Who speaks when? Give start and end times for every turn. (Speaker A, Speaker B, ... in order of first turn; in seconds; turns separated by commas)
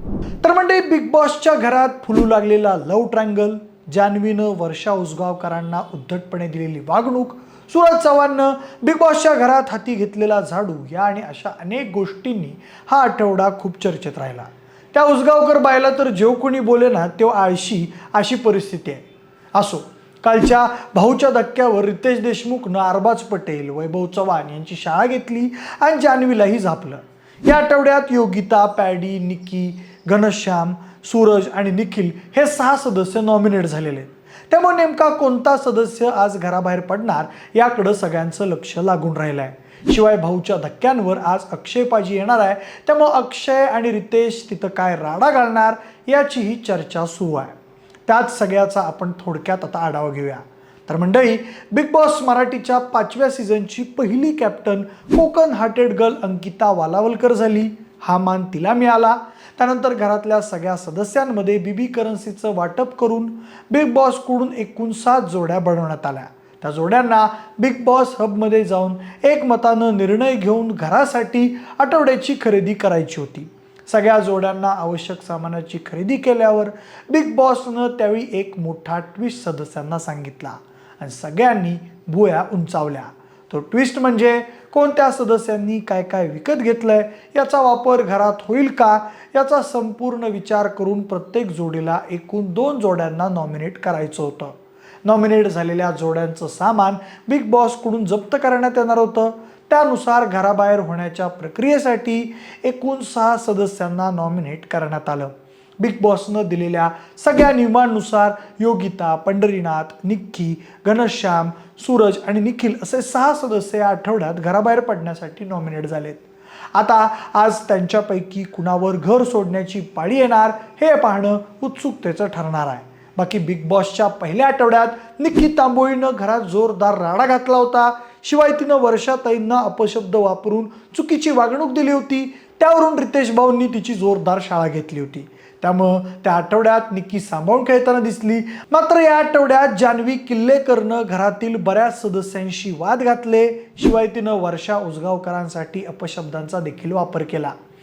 Speaker A: 0.4-47.5, Speaker A: 48.1-116.2, Speaker A: 116.8-147.5